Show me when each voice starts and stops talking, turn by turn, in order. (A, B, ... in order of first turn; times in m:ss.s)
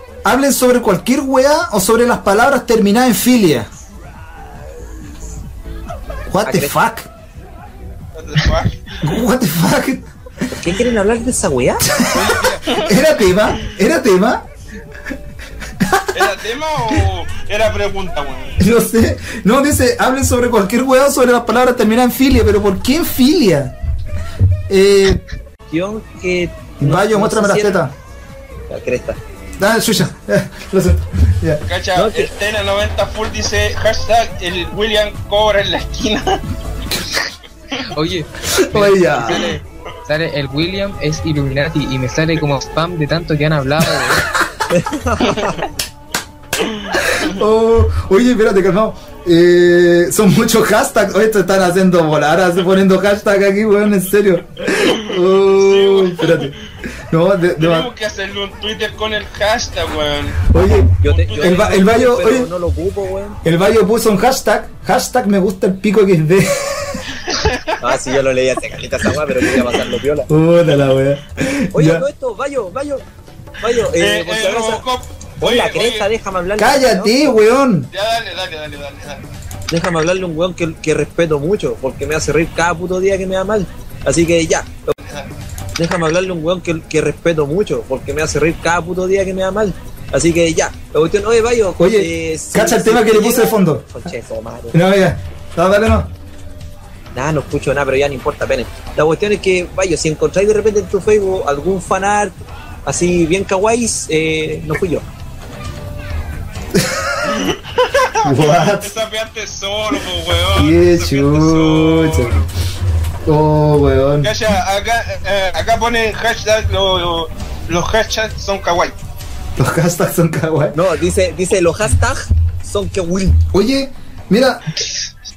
0:00.2-0:03.7 A
0:06.3-0:07.1 A
0:06.4-0:06.8 B
0:08.2-0:09.0 C
0:09.0-0:10.0 A
0:10.5-0:11.9 B
0:11.9-0:14.4 A
0:12.1-0:12.8 D
0:15.8-0:16.3 A
0:16.1-0:18.6 C
0:18.6-0:23.8 A
0:24.7-0:25.2 A
0:25.7-0:27.8 B
0:26.8-0:27.9 A
0:28.7-0:29.2 B
0:29.6-0:31.6 A
0:31.7-0:36.4 C
0:32.0-0:32.3 B
0:37.8-0:44.3 D
0:38.5-0:39.5 A
0:44.7-0:45.7 B
0:46.6-0:46.9 C
0:47.0-0:56.6 A
0:55.1-0:56.5 C
0:57.1-0:57.9 A
0:57.6-1:00.4 C
1:00.5-1:02.5 A
1:01.0-1:03.4 B
1:01.0-1:01.8 C
1:03.4-1:07.1 A
1:07.2-1:08.0 C
1:07.8-1:10.3 B
1:10.3-1:12.1 A
1:11.7-1:13.0 B
1:13.6-1:14.8 B
1:14.0-1:16.1 C
1:15.4-1:17.4 B
1:16.6-1:17.9 A
1:17.9-1:19.2 C
1:19.7-1:25.0 B
1:25.0-1:25.3 C
1:25.8-1:34.8 B
1:31.8-1:34.1 A
1:34.7-1:36.1 A
1:37.1-1:45.1 B
1:46.7-1:47.5 A
1:47.3-1:52.5 C
1:48.2-1:48.9 A
1:50.5-1:52.4 A
1:53.3-1:54.3 A
1:54.2-1:59.0 C
1:59.6-2:00.8 A
2:00.7-2:03.4 B
2:03.5-2:04.7 A